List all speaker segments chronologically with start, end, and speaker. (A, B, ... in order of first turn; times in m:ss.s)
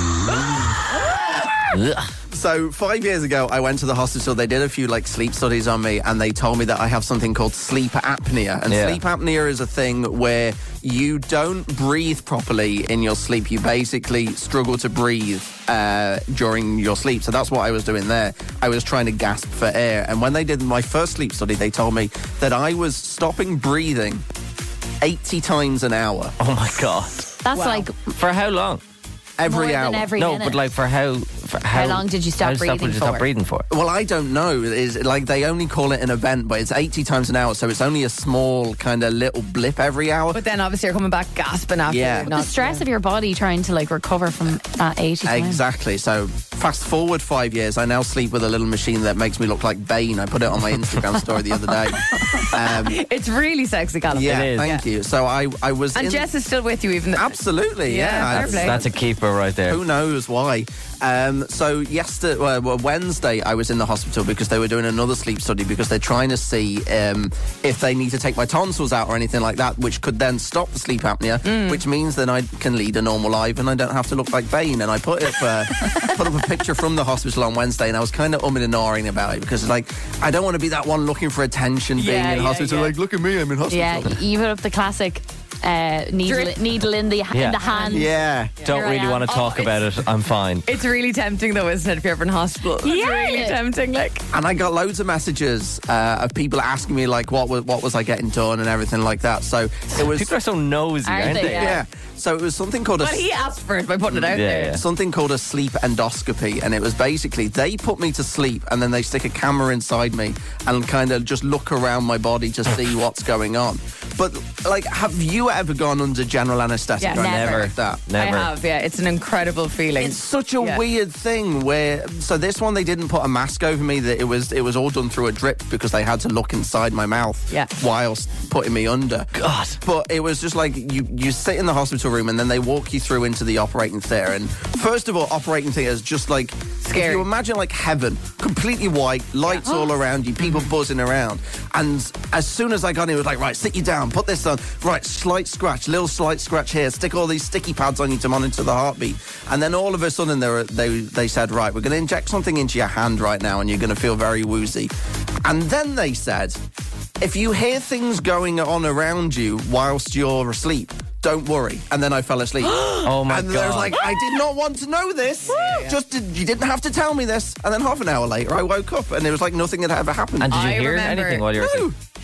0:01.7-0:02.1 A
0:02.3-0:24.2 B
0:08.7-0:09.0 A
0:25.0-0:26.4 B
0:26.4-0:27.3 A
0:27.4-0:28.1 C
0:27.6-0:27.9 D
0:28.1-0:28.8 A
0:29.4-0:30.1 B
0:29.4-0:30.6 C
0:30.2-0:33.7 A
0:31.7-0:33.3 C
0:33.7-0:40.4 B
0:40.3-0:42.8 D
0:41.9-0:42.3 B
0:42.3-0:45.6 C
0:45.2-0:53.0 B
0:52.4-0:54.8 D
0:54.1-0:56.3 B
0:54.2-0:54.7 A
0:56.0-0:58.8 D
0:57.2-0:58.9 B
0:58.3-0:59.8 A
0:59.7-1:24.2 B
1:11.4-1:11.8 D
1:22.0-1:22.9 D
1:23.7-1:28.1 C
1:26.3-1:26.6 D
1:27.3-1:27.6 A
1:27.7-1:29.9 D
1:27.9-1:28.6 B
1:28.7-1:30.6 A
1:28.7-1:29.3 C
1:30.7-1:34.2 D
1:32.8-1:33.6 C
1:34.3-1:40.3 B
1:40.0-1:41.8 A
1:41.0-1:41.8 C
1:41.3-1:43.3 B
1:43.0-1:44.8 D
1:44.1-1:58.0 B
1:44.3-1:44.8 A
1:57.0-2:00.8 D
1:57.2-1:58.5 A
2:00.0-2:34.9 B
2:09.4-2:09.8 A
2:16.8-2:17.2 D
2:35.4-2:36.6 B
2:37.2-2:50.6 B
2:43.0-2:44.1 A
2:45.5-2:46.0 D
2:50.4-2:51.9 A
2:50.5-2:51.5 D
2:51.5-2:52.0 B